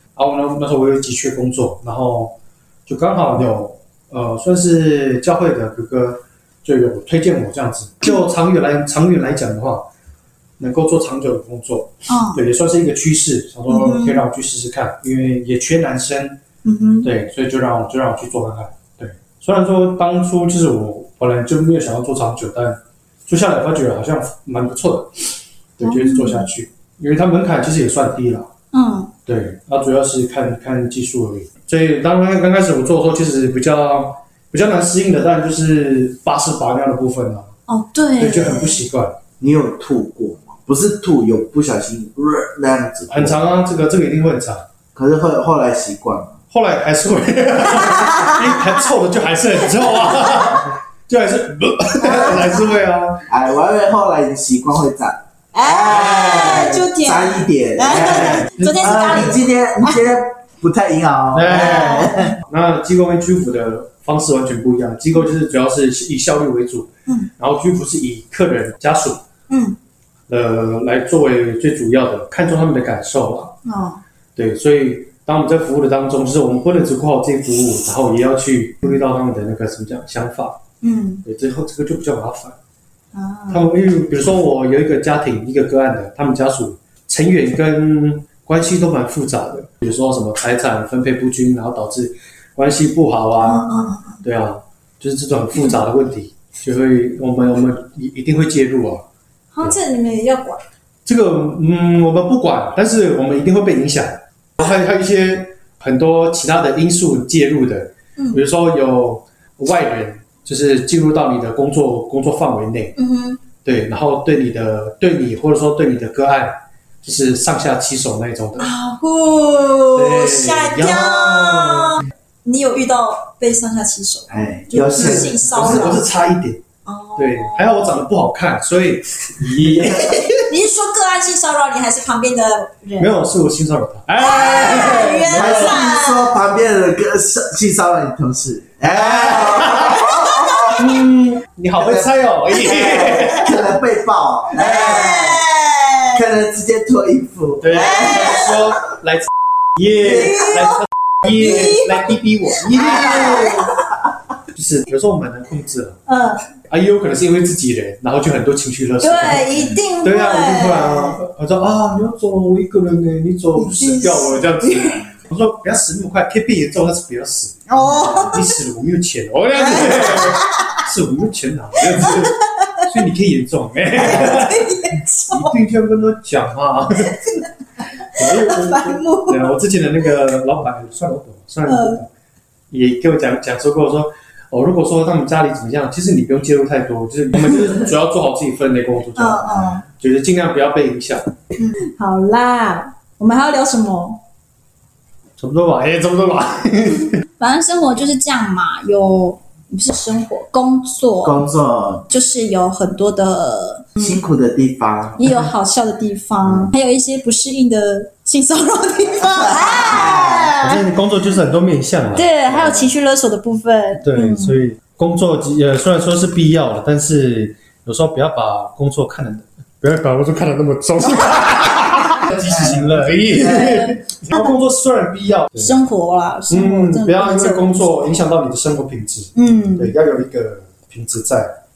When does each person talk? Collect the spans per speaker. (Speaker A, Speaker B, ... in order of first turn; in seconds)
Speaker A: 0.1-2.3, 2.9-9.9, 10.6-16.4, 17.0-28.5, 29.2-37.5, 38.2-39.2, 43.1-44.6, 46.5-53.2, 56.1-56.7, 58.0-58.8, 61.3-69.2, 70.3-73.5, 74.4-80.6, 81.2-82.6, 83.5-93.7, 94.2-99.0, 101.0-112.9, 113.6-118.7, 119.9-122.0, 124.9-126.6, 127.2-130.4, 133.0-135.9, 138.9-140.1, 140.7-143.7, 144.7-145.1, 147.6-153.7, 154.5-156.0, 156.7-177.4, 178.1-182.1, 182.7-191.2, 195.4-197.2, 210.6-212.9, 214.0-225.8, 226.5-231.6
Speaker B: 12.1-12.4, 13.7-14.2, 16.6-17.1, 25.8-26.5, 28.7-29.1, 37.7-38.8, 55.5-60.0, 61.5-62.3, 69.5-69.8, 73.6-74.0, 80.8-81.2, 83.1-83.7, 93.4-94.1, 99.5-100.6, 113.0-113.4, 118.6-126.0, 126.9-127.8, 129.8-133.1, 134.2-136.3, 140.0-140.7, 144.6-146.2, 147.8-148.5, 150.0-152.0, 152.7-153.7, 156.1-156.4, 159.0-161.2, 163.6-165.0, 167.7-168.4, 169.6-170.8, 172.0-172.8, 173.9-175.5, 178.2-179.5, 181.7-182.0, 189.2-189.8, 191.6-194.2, 197.4-201.4, 202.1-204.0, 205.2-210.8, 212.1-214.6, 223.4-223.9, 225.6-227.9, 229.3-229.9
Speaker C: 39.4-43.4, 44.9-46.4, 53.3-62.4, 124.3-126.0, 134.7-140.9, 141.8-145.4, 146.1-148.4, 201.2-202.1, 204.0-205.2, 209.4-210.5